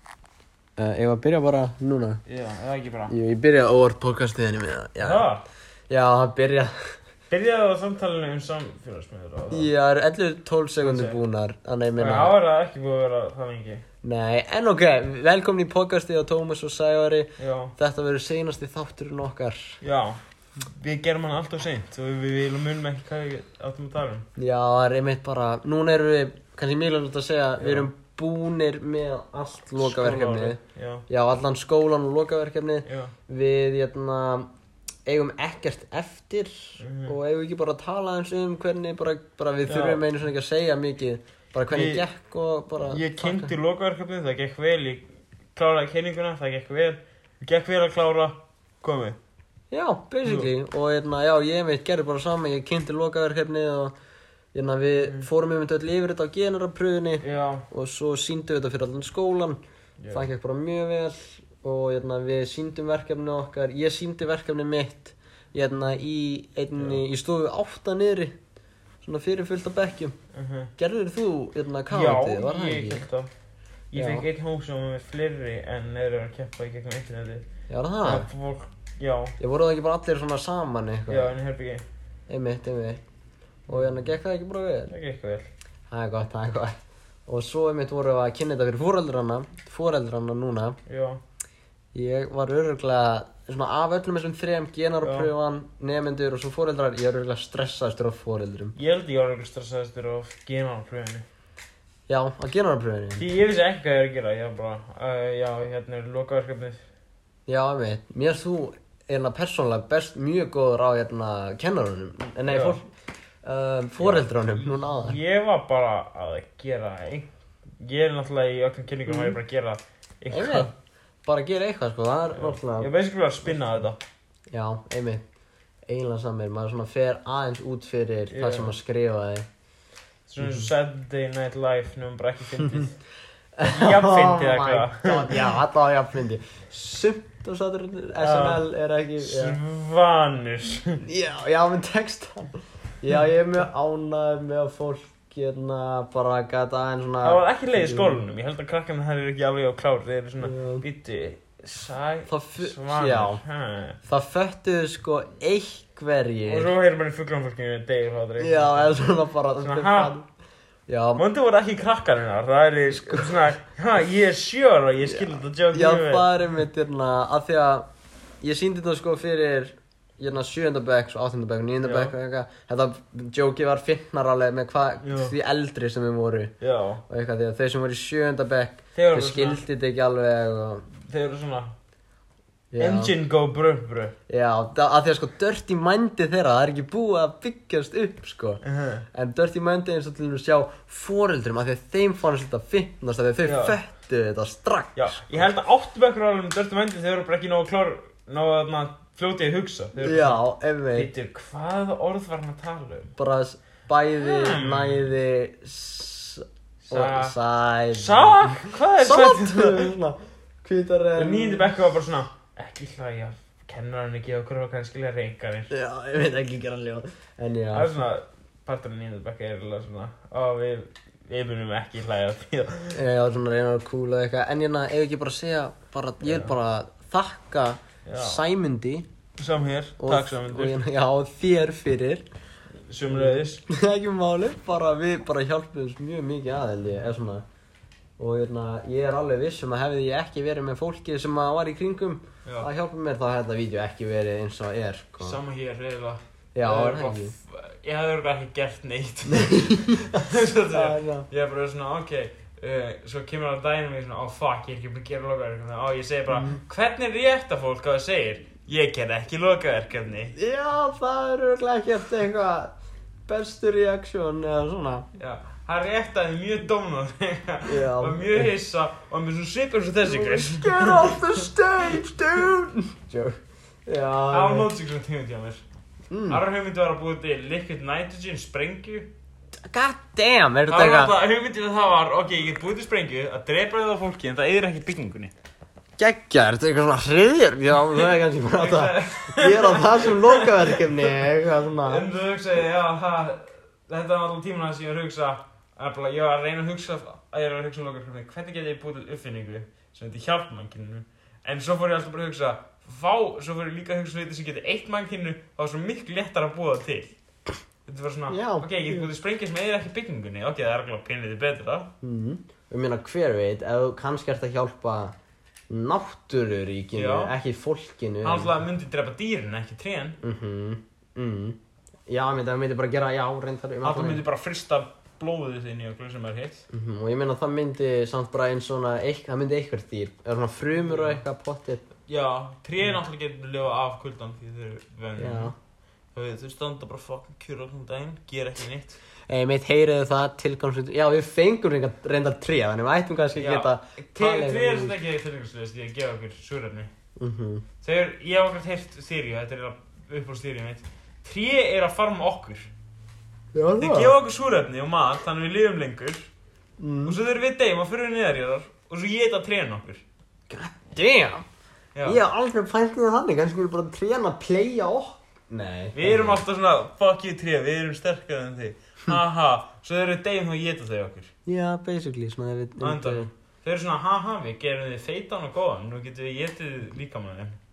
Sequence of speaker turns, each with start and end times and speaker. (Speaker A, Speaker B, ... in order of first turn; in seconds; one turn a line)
Speaker A: 0.8-2.2
Speaker B: 2.2-3.1
Speaker A: 3.1-5.2
Speaker B: 5.0-5.4
Speaker A: 5.9-6.7
Speaker B: 7.3-9.7
Speaker A: 9.5-12.3
Speaker B: 10.8-11.2
Speaker B: 12.0-13.8
Speaker A: 14.0-19.8
Speaker B: 17.4-17.7
Speaker B: 19.8-24.3
Speaker A: 24.4-34.5
Speaker B: 27.6-27.9
Speaker B: 29.8-31.1
Speaker B: 32.9-33.1
Speaker A: 35.0-43.5
Speaker B: 36.8-37.1
Speaker B: 39.6-40.0
Speaker B: 41.7-42.0
Speaker B: 42.8-49.2
Speaker A: 49.7-53.9
Speaker B: 50.2-50.5
Speaker A: 54.5-59.6
Speaker B: 57.2-57.7
Speaker B: 60.0-60.3
Speaker A: 60.1-68.3
Speaker B: 66.8-67.0
Speaker A: 69.0-70.2
Speaker B: 70.3-70.7
Speaker A: 70.8-73.1
Speaker B: 71.9-73.3
Speaker B: 73.9-77.4
Speaker A: 73.9-74.3
Speaker A: 77.7-78.3
Speaker B: 78.0-79.3
Speaker A: 79.4-81.3
Speaker B: 81.1-81.8
Speaker A: 82.3-83.0
Speaker A: 83.7-84.9
Speaker B: 83.7-84.1
Speaker B: 84.9-85.5
Speaker A: 85.9-86.7
Speaker A: 87.3-90.8
Speaker B: 90.8-91.2
Speaker A: 91.9-98.8
Speaker B: 95.0-95.3
Speaker B: 98.8-101.2
Speaker A: 102.1-103.2
Speaker B: 103.2-106.8
Speaker A: 107.5-112.8
Speaker B: 112.5-112.8
Speaker A: 113.4-115.2
Speaker B: 114.0-117.3
Speaker B: 117.8-120.7
Speaker A: 119.0-119.4
Speaker A: 120.3-120.7
Speaker A: 121.2-122.9
Speaker B: 122.3-124.0
Speaker A: 124.5-125.2
Speaker A: 125.9-129.5
Speaker B: 128.3-128.7
Speaker B: 130.3-133.0
Speaker A: 130.4-130.7
Speaker A: 133.6-139.6
Speaker B: 133.6-135.5
Speaker B: 138.2-138.6
Speaker B: 139.2-141.0
Speaker A: 141.0-148.2
Speaker B: 147.2-154.0
Speaker A: 150.4-150.8
Speaker A: 152.3-153.4
Speaker A: 154.0-156.7
Speaker B: 156.5-158.9
Speaker A: 158.4-160.2
Speaker B: 159.6-160.1
Speaker A: 160.9-161.2
Speaker B: 161.2-166.3
Speaker A: 165.1-167.9
Speaker A: 168.4-176.5
Speaker B: 171.8-172.1
Speaker B: 175.0-175.3
Speaker B: 176.6-177.0
Speaker A: 177.1-180.9
Speaker B: 178.9-179.6
Speaker B: 181.1-181.7
Speaker A: 182.7-183.1
Speaker B: 182.8-184.1
Speaker A: 184.3-188.6
Speaker B: 188.6-189.1
Speaker A: 189.1-195.4
Speaker B: 193.4-193.8
Speaker B: 194.9-200.4
Speaker A: 200.0-201.1
Speaker B: 200.9-203.1
Speaker A: 203.2-211.7
Speaker B: 204.2-205.1
Speaker B: 206.8-207.3
Speaker B: 207.9-209.9
Speaker B: 211.2-215.7
Speaker A: 215.7-217.9
Speaker B: 217.7-223.0
Speaker A: 222.9-229.1
Speaker B: 226.2-226.5
Speaker B: 228.0-228.4
Speaker B: 229.4-230.8
Speaker A: 230.0-232.2
Speaker B: 232.8-233.6
Speaker A: 233.1-237.4
Speaker A: 238.2-245.4
Speaker B: 245.2-260.3
Speaker A: 246.5-247.3
Speaker A: 249.3-251.3
Speaker A: 256.3-256.6
Speaker A: 260.3-262.7
Speaker A: 263.2-265.1
Speaker B: 265.1-271.5
Speaker A: 267.7-268.5
Speaker A: 270.0-274.7
Speaker B: 274.3-275.6
Speaker A: 276.1-276.4
Speaker B: 276.3-279.1
Speaker A: 279.6-281.1
Speaker B: 280.7-285.3
Speaker A: 286.0-292.0
Speaker B: 288.6-291.1
Speaker B: 291.8-307.1
Speaker B: 307.9-311.9
Speaker A: 308.3-309.1
Speaker A: 312.0-315.1
Speaker A: 315.7-318.5
Speaker B: 316.9-317.3
Speaker B: 318.2-320.2
Speaker A: 320.2-324.2
Speaker B: 323.8-326.7
Speaker A: 326.7-331.8
Speaker B: 330.8-331.2
Speaker B: 332.1-335.5
Speaker A: 335.2-335.5
Speaker B: 336.1-339.0
Speaker A: 339.3-345.0
Speaker B: 343.4-346.9
Speaker A: 347.2-347.6
Speaker B: 347.8-352.7
Speaker A: 353.5-354.1
Speaker B: 353.8-356.3
Speaker A: 356.8-357.2
Speaker B: 357.1-360.0
Speaker A: 360.5-361.4
Speaker B: 361.9-362.2
Speaker A: 362.0-366.4
Speaker B: 365.9-371.3
Speaker A: 371.4-373.3
Speaker B: 372.8-377.6